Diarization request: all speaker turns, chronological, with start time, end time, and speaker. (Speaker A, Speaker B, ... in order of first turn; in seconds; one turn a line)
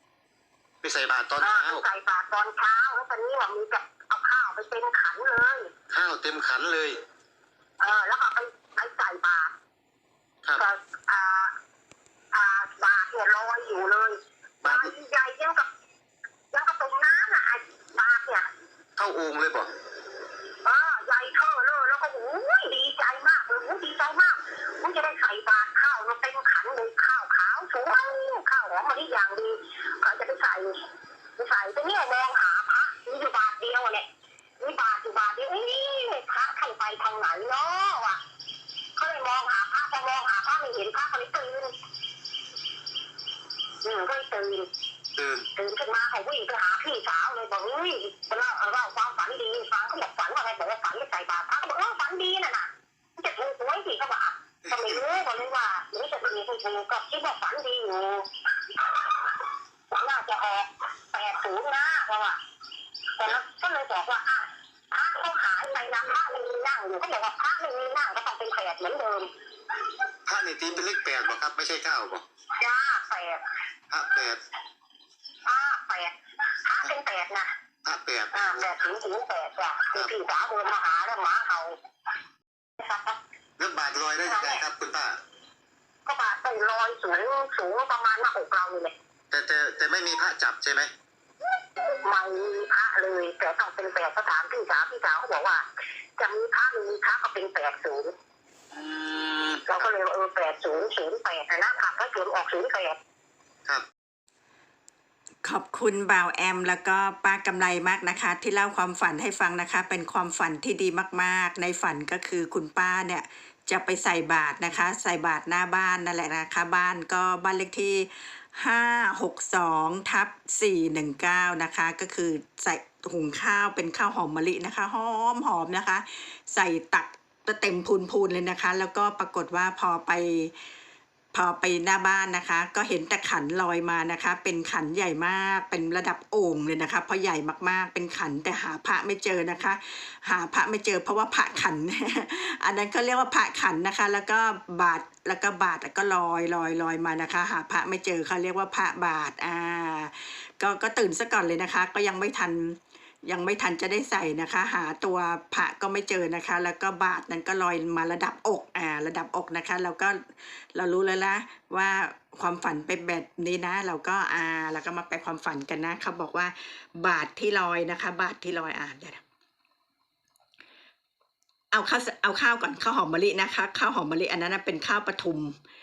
Speaker A: 0.8-1.8
Speaker B: 1.4-5.7
Speaker A: 5.9-7.0
Speaker B: 7.8-9.5
Speaker B: 10.6-11.5
Speaker B: 12.3-15.7
Speaker A: 14.6-14.9
Speaker B: 16.5-18.4
Speaker A: 19.0-19.7
Speaker B: 20.6-30.8
Speaker B: 31.4-34.1
Speaker B: 34.6-38.2
Speaker B: 39.0-41.7
Speaker B: 43.8-44.6
Speaker A: 45.2-45.5
Speaker B: 45.5-59.4
Speaker A: 54.7-55.0
Speaker B: 59.9-62.4
Speaker B: 63.2-69.3
Speaker A: 70.3-72.2
Speaker B: 72.5-73.4
Speaker A: 73.9-74.4
Speaker B: 75.4-77.5
Speaker A: 77.8-78.7
Speaker B: 78.3-81.8
Speaker B: 82.8-83.2
Speaker A: 83.6-85.2
Speaker B: 84.2-84.6
Speaker B: 86.0-88.9
Speaker A: 89.3-90.9
Speaker B: 91.8-95.6
Speaker B: 96.2-98.1
Speaker A: 98.7-99.6
Speaker B: 99.7-103.0
Speaker C: 105.4-130.5
Speaker C: 131.3-160.2
Speaker C: 160.7-169.2
Speaker C: 171.7-175.6